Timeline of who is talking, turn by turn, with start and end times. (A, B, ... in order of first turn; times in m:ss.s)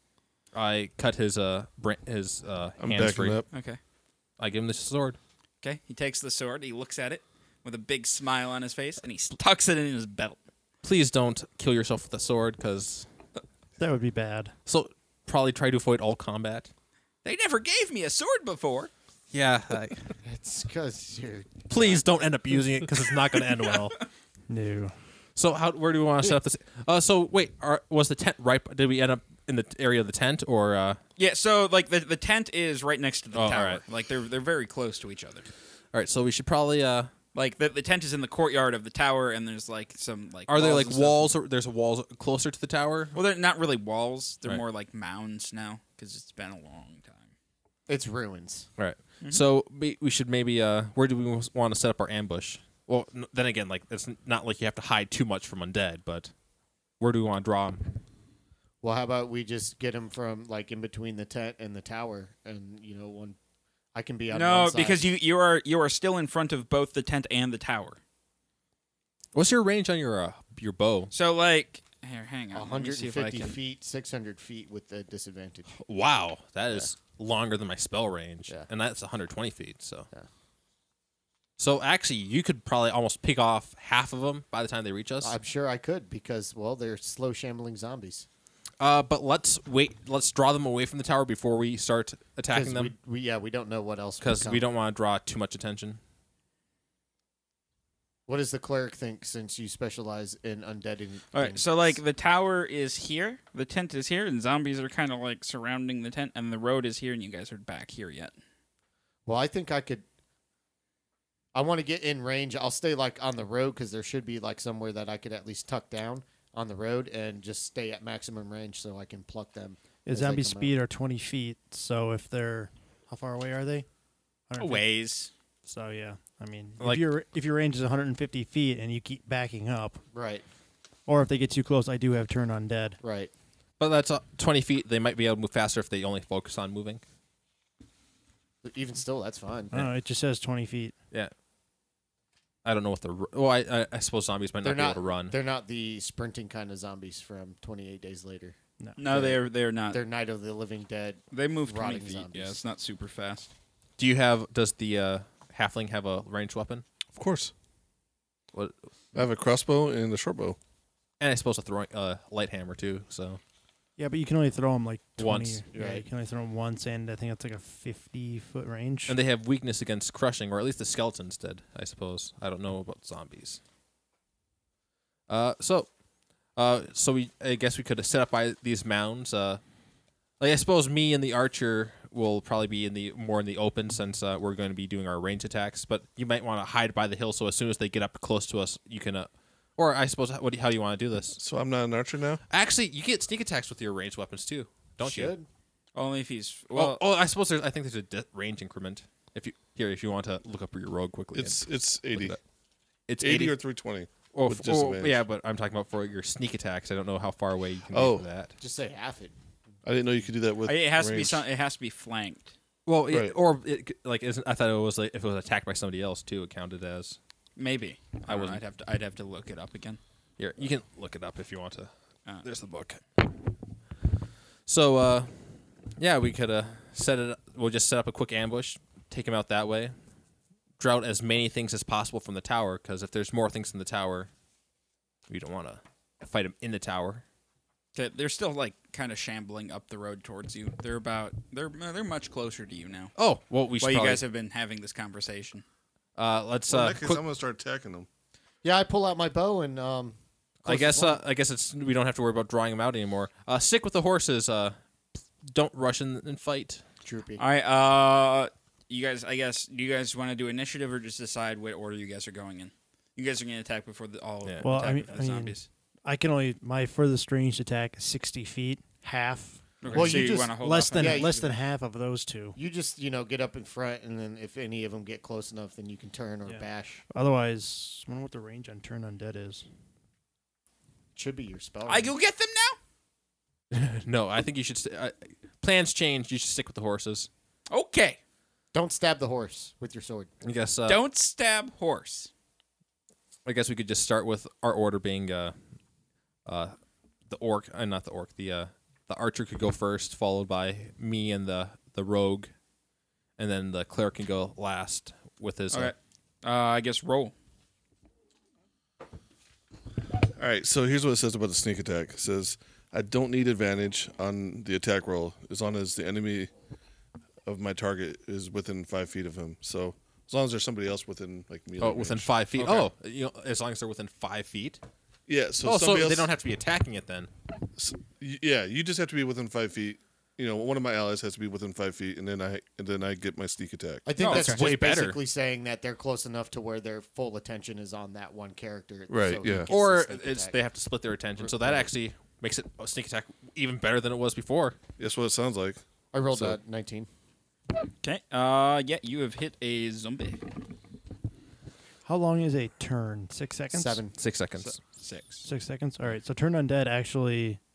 0:00.5-0:03.4 A
0:02.8-0:03.5 B
0:03.5-0:03.8 C
0:04.4-0:05.2 A
0:05.6-0:10.4 C
0:10.8-0:13.1 A
0:13.8-0:14.6 D
0:14.7-0:16.7 A
0:17.2-0:18.9 C
0:19.3-0:20.1 A
0:20.2-0:22.1 E
0:21.7-0:24.0 A
0:24.5-0:25.0 D
0:25.4-0:31.0 A
0:31.2-0:35.5 C
0:33.3-0:33.8 A
0:35.9-0:37.1 A
0:37.3-0:41.3 C
0:40.5-0:43.2 A
0:43.2-0:47.3 C
0:47.9-0:48.7 E
0:48.8-0:56.3 A
0:57.0-0:57.8 A
0:58.8-1:03.4 E
1:04.0-1:05.1 E
1:04.3-1:08.0 C
1:09.3-1:11.1 A
1:11.1-1:13.6 C
1:12.5-1:15.7 E
1:15.8-1:20.1 A
1:21.6-1:25.3 A
1:25.2-1:28.3 E
1:28.8-1:32.9 A
1:32.5-1:34.6 E
1:34.2-1:36.0 A
1:38.3-1:42.0 E
1:41.3-1:48.3 C
1:49.3-1:50.0 E
1:51.5-2:00.8 E
2:00.0-2:03.9 D
2:04.5-2:04.8 D
2:04.6-2:05.3 C
2:05.6-2:10.0 D
2:06.8-2:07.1 A
2:10.1-2:10.4 E
2:11.1-2:13.0 D
2:13.0-2:13.3 E
2:13.8-2:17.0 A
2:18.6-2:19.7 E
2:19.7-2:20.9 D
2:22.6-2:25.4 A
2:24.6-2:28.6 E
2:29.0-2:30.0 C
2:29.1-2:32.6 E
2:31.3-2:33.5 C
2:34.0-2:36.8 A
2:37.1-2:37.5 B
2:39.1-2:40.6 B
2:41.2-2:43.4 A
2:44.0-2:49.2 D
2:45.2-2:45.6 A
2:49.1-2:53.6 A
2:55.3-2:55.9 A
2:56.6-2:59.6 A
3:00.4-3:11.4 A
3:11.4-3:12.4 B
3:12.5-3:15.3 A
3:15.0-3:15.5 E
3:16.0-3:17.0 C
3:16.8-3:21.6 A
3:21.4-3:22.4 B
3:23.1-3:23.6 A
3:23.2-3:25.2 B
3:24.3-3:28.5 A
3:27.9-3:28.2 B
3:28.6-3:29.3 E
3:29.8-3:31.4 B
3:30.7-3:32.5 C
3:32.9-3:37.2 A
3:33.1-3:33.4 B
3:37.6-3:40.0 C
3:38.3-3:38.6 A
3:40.4-3:41.9 A
3:42.4-3:43.5 A
3:44.7-3:45.4 A
3:46.0-3:49.9 A
3:50.8-3:54.3 A
3:55.3-3:57.2 A
3:58.0-4:03.1 C
4:03.2-4:04.2 A
4:03.8-4:05.6 C
4:06.2-4:07.2 A
4:06.7-4:08.1 B
4:08.6-4:11.2 E
4:10.6-4:16.8 A
4:17.0-4:17.4 E
4:17.4-4:25.7 C
4:24.6-4:32.6 D
4:29.8-4:31.5 C
4:29.9-4:31.5 E
4:32.6-4:37.0 E
4:36.5-4:39.6 D
4:41.2-4:42.1 E
4:41.9-4:42.8 C
4:43.7-4:47.3 A
4:47.7-4:48.2 C
4:48.7-4:50.3 E
4:50.4-4:51.0 A
4:50.9-4:52.3 C
4:53.4-4:55.6 A
4:56.5-4:56.8 A
4:57.3-5:02.5 A
5:03.4-5:05.9 A
5:05.7-5:07.3 C
5:10.4-5:16.5 B
5:17.5-5:22.9 B
5:21.8-5:24.8 A
5:25.3-5:26.3 B
5:25.6-5:27.3 A
5:27.8-5:34.0 B
5:34.1-5:40.6 E
5:34.2-5:34.6 C
5:34.2-5:35.2 A
5:39.1-5:39.7 B
5:39.7-5:44.8 A
5:41.4-5:41.9 E
5:45.0-5:46.6 B
5:46.1-5:47.1 E
5:48.0-5:50.4 C
5:52.0-5:54.0 D
5:53.7-5:54.1 E
5:54.2-5:54.8 A
5:54.6-5:55.5 C
5:55.4-5:57.6 D